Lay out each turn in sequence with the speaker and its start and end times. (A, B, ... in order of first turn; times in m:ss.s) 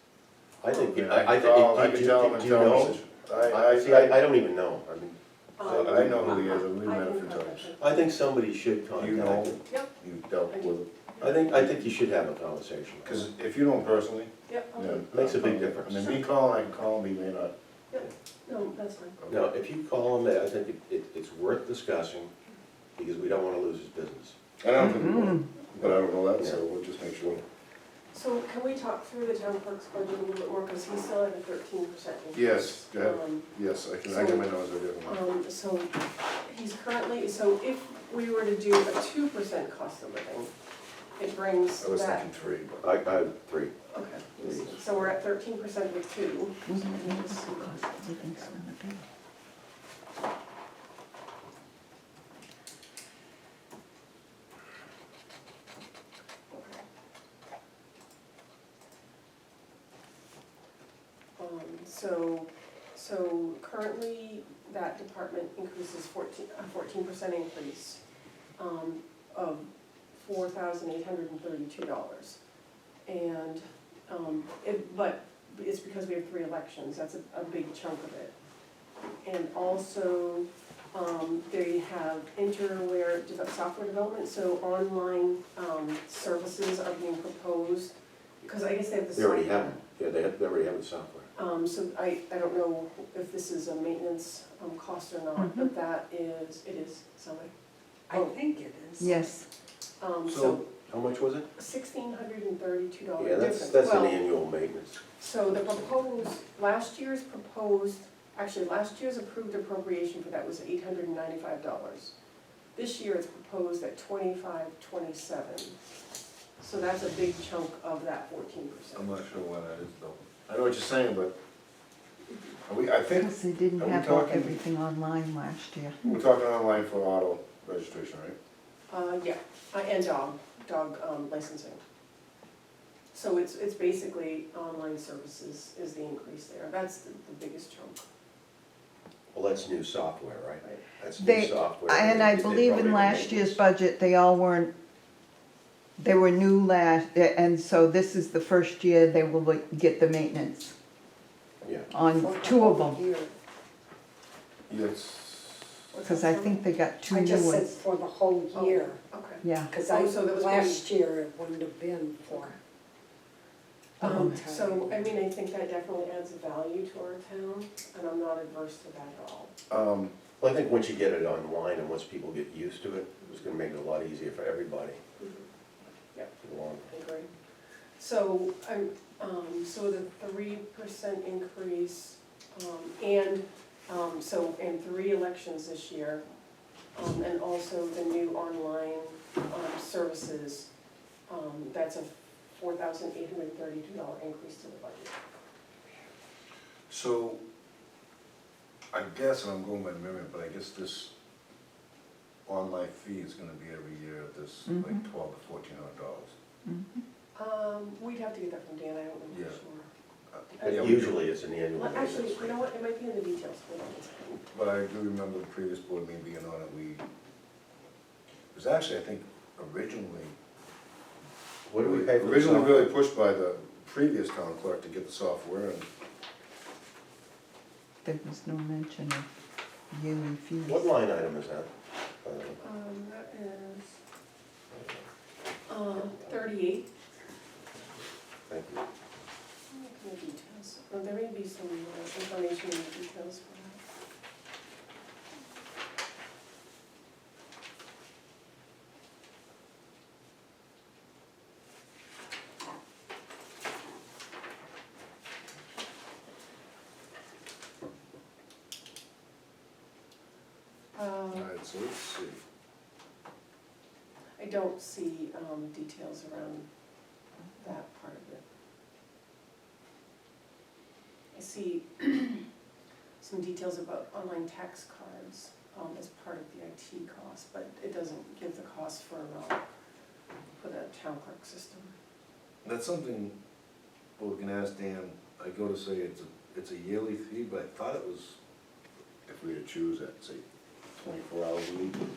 0:00.6-0:06.6 A
0:00.9-0:04.2 B
0:05.6-0:08.1 C
0:05.6-0:07.7 B
0:07.8-0:09.6 A
0:09.0-0:10.9 B
0:09.6-0:09.9 C
0:10.5-0:11.4 C
0:11.2-0:13.2 A
0:13.0-0:17.5 B
0:14.5-0:15.1 C
0:15.1-0:16.2 A
0:17.9-0:19.2 C
0:19.2-0:19.5 B
0:19.3-0:22.3 A
0:23.0-0:24.4 A
0:24.6-0:27.4 B
0:24.8-0:25.5 D
0:25.8-0:26.6 A
0:28.1-0:33.5 C
0:32.3-0:35.2 B
0:34.0-0:40.5 C
0:41.2-0:42.3 C
0:41.8-0:43.0 B
0:42.8-0:43.8 A
0:43.9-0:48.6 C
0:44.4-0:45.2 A
0:46.7-0:49.0 D
0:56.5-0:56.8 C
1:01.4-1:08.0 C
1:08.6-1:12.4 C
1:13.0-1:18.3 C
1:19.2-1:29.8 C
1:29.1-1:31.3 A
1:31.3-1:37.5 C
1:35.4-1:35.7 D
1:38.1-1:39.3 E
1:39.0-1:39.4 D
1:40.0-1:40.7 C
1:40.2-1:40.6 B
1:40.7-1:41.5 A
1:41.6-1:44.3 C
1:43.2-1:45.0 A
1:45.2-1:52.1 C
1:52.7-1:55.8 C
1:56.6-1:59.2 C
1:58.9-2:01.3 B
2:02.7-2:04.6 B
2:03.1-2:06.0 D
2:06.0-2:08.4 B
2:08.9-2:11.8 C
2:13.1-2:18.0 C
2:19.3-2:23.6 A
2:21.2-2:24.7 D
2:26.0-2:30.7 D
2:31.6-2:31.9 A
2:31.9-2:33.0 D
2:32.1-2:33.3 E
2:34.7-2:35.8 B
2:35.9-2:36.7 C
2:36.0-2:37.7 D
2:37.1-2:39.0 E
2:38.5-2:40.9 C
2:39.4-2:39.7 D
2:39.7-2:42.6 E
2:44.0-2:44.4 D
2:44.0-2:49.5 C
2:44.0-2:45.1 E
2:49.7-2:50.1 B
2:50.4-2:55.0 A
2:55.2-2:55.4 C
2:56.4-2:56.9 A
2:56.9-2:57.3 C
2:58.0-3:06.2 C
3:06.9-3:10.7 C
3:11.3-3:15.1 C
3:16.9-3:17.4 B
3:18.9-3:21.1 B
3:22.4-3:26.3 B
3:24.7-3:25.0 D
3:26.6-3:27.0 D
3:27.3-3:29.9 C
3:29.3-3:29.6 B
3:30.3-3:31.2 B
3:30.6-3:32.6 A
3:31.8-3:34.4 C
3:34.5-3:37.0 B
3:38.5-3:40.4 B
3:41.7-3:42.9 A
3:41.8-3:45.9 B
3:48.0-3:49.3 D
3:49.9-3:50.9 D
3:50.6-3:51.7 A
3:52.2-3:52.6 A
3:52.6-3:54.0 C
3:54.7-3:55.0 A
3:55.7-3:56.9 C
3:58.5-3:58.8 A
3:59.7-4:03.8 C
4:20.9-4:21.5 C
4:21.3-4:22.4 B
4:24.4-4:26.7 C
4:27.6-4:28.4 C
4:31.3-4:32.4 C
4:33.2-4:39.6 C
4:40.6-4:41.9 C
4:42.6-4:43.4 B
4:44.2-4:48.4 B
4:49.3-4:52.0 B